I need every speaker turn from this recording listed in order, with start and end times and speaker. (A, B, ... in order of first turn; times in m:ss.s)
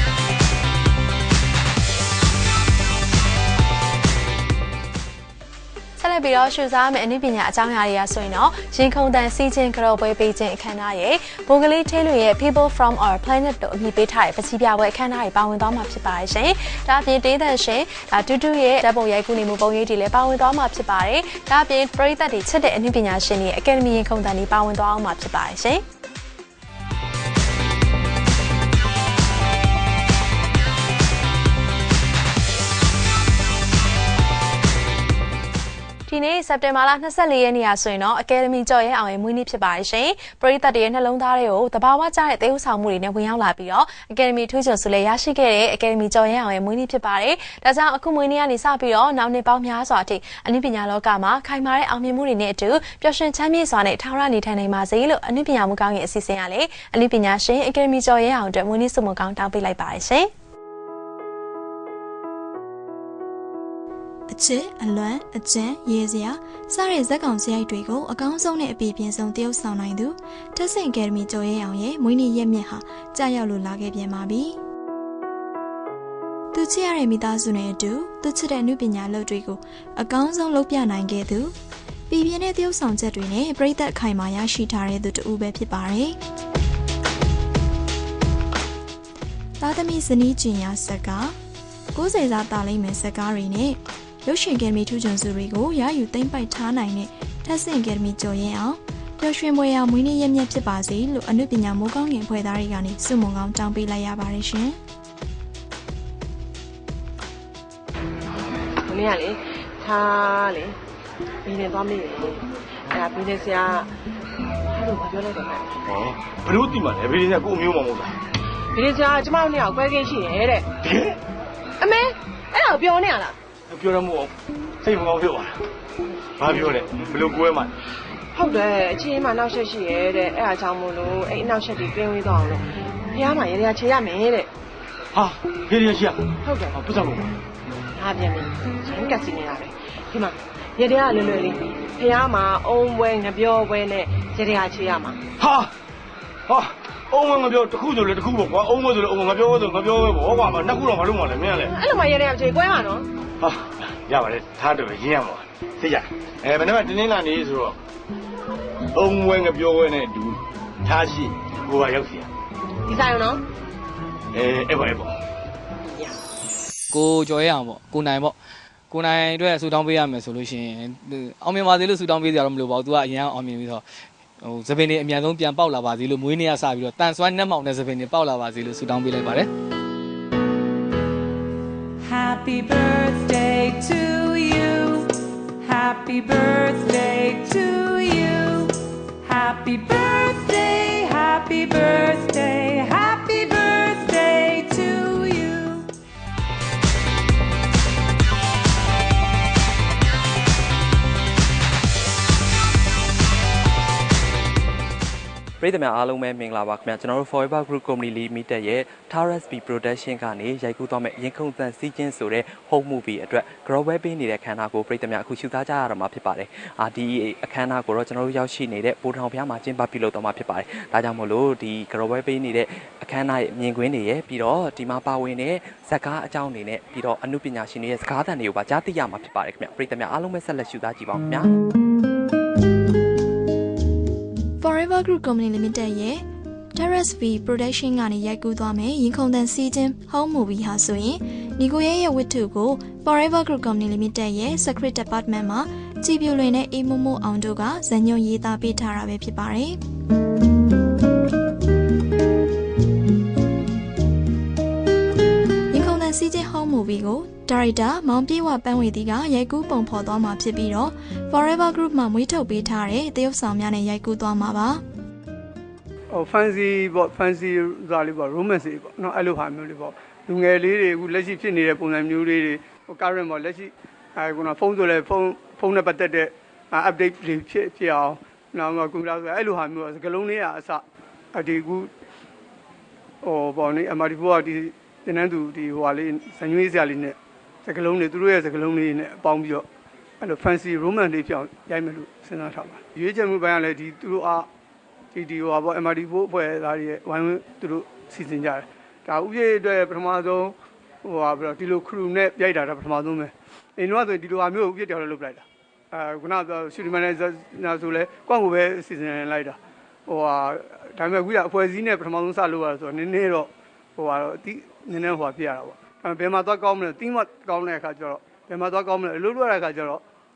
0:06.0-0:25.8 A
0:36.1-1:00.3 A
1:04.3-1:14.6 B
1:16.5-1:21.5 B
1:22.1-1:26.2 B
1:29.6-1:31.3 B
1:31.9-1:44.8 B
1:51.5-1:52.4 C
1:53.1-1:53.8 C
1:54.7-1:55.6 C
1:55.8-1:58.1 D
1:58.8-2:00.6 C
2:00.8-2:01.2 D
2:02.6-2:03.3 C
2:03.7-2:04.3 D
2:04.8-2:05.6 D
2:06.4-2:07.7 D
2:08.4-2:12.6 C
2:13.2-2:14.4 C
2:15.1-2:17.3 D
2:18.0-2:25.2 C
2:25.4-2:25.7 D
2:26.5-2:31.7 D
2:32.0-2:33.0 C
2:33.4-2:37.8 D
2:38.9-2:42.3 D
2:43.0-2:43.4 C
2:44.3-2:45.1 D
2:46.9-2:48.3 E
2:48.9-2:53.8 E
2:54.4-2:59.5 E
3:02.0-3:05.1 F
3:05.6-3:15.8 F
3:25.6-3:51.5 G
3:54.6-3:56.2 B
3:56.7-4:09.8 B
4:15.7-4:24.8 B
4:26.1-4:41.9 H
4:43.2-4:49.6 H
4:50.2-4:54.5 H
4:55.1-5:20.0 H